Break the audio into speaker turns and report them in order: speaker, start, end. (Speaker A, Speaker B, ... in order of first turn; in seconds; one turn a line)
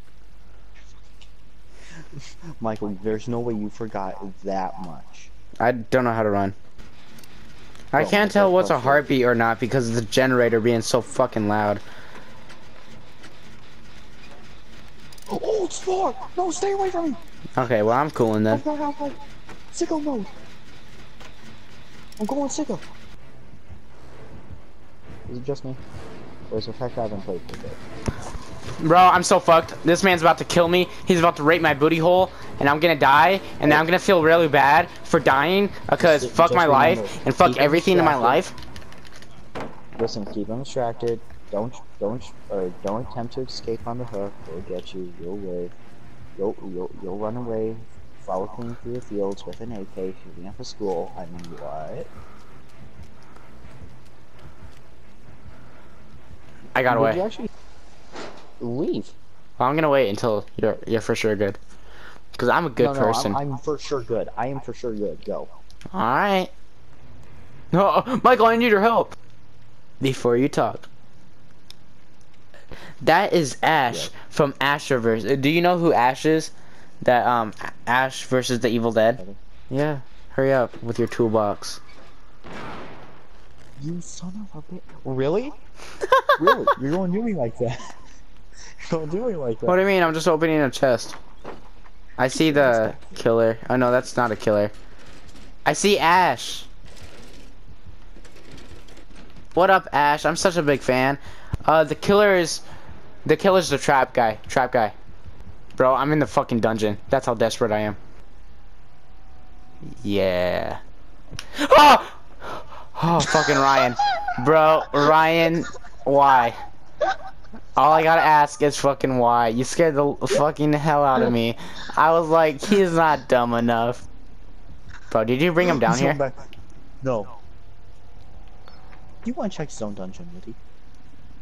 Speaker A: 2.6-5.3
Speaker B: 5.6-6.5
Speaker B: 7.9-11.8
Speaker A: 8.0-9.2
Speaker A: 15.3-17.2
Speaker B: 17.6-18.6
Speaker A: 18.5-19.2
Speaker A: 19.7-20.3
Speaker A: 22.2-22.9
Speaker A: 25.3-25.8
Speaker A: 26.5-27.8
Speaker B: 28.8-38.5
Speaker A: 36.0-38.5
Speaker A: 40.0-45.7
Speaker A: 46.4-52.1
Speaker B: 56.8-57.2
Speaker A: 56.9-57.5
Speaker A: 58.6-59.1
Speaker B: 59.6-61.6
Speaker B: 62.4-63.4
Speaker A: 62.8-65.5
Speaker B: 65.9-66.5
Speaker B: 67.7-69.1
Speaker B: 70.0-70.9
Speaker B: 73.0-81.8
Speaker A: 83.8-85.6
Speaker B: 86.0-86.7
Speaker A: 86.4-87.9
Speaker A: 88.9-89.8
Speaker B: 89.7-91.2
Speaker B: 92.2-94.7
Speaker A: 92.3-93.2
Speaker B: 95.7-96.7
Speaker B: 99.5-102.6
Speaker B: 103.2-104.9
Speaker B: 105.8-108.0
Speaker B: 110.0-110.8
Speaker B: 111.6-116.6
Speaker B: 117.8-124.0
Speaker B: 125.1-126.2
Speaker A: 125.6-126.5
Speaker A: 127.0-127.3
Speaker A: 129.2-130.6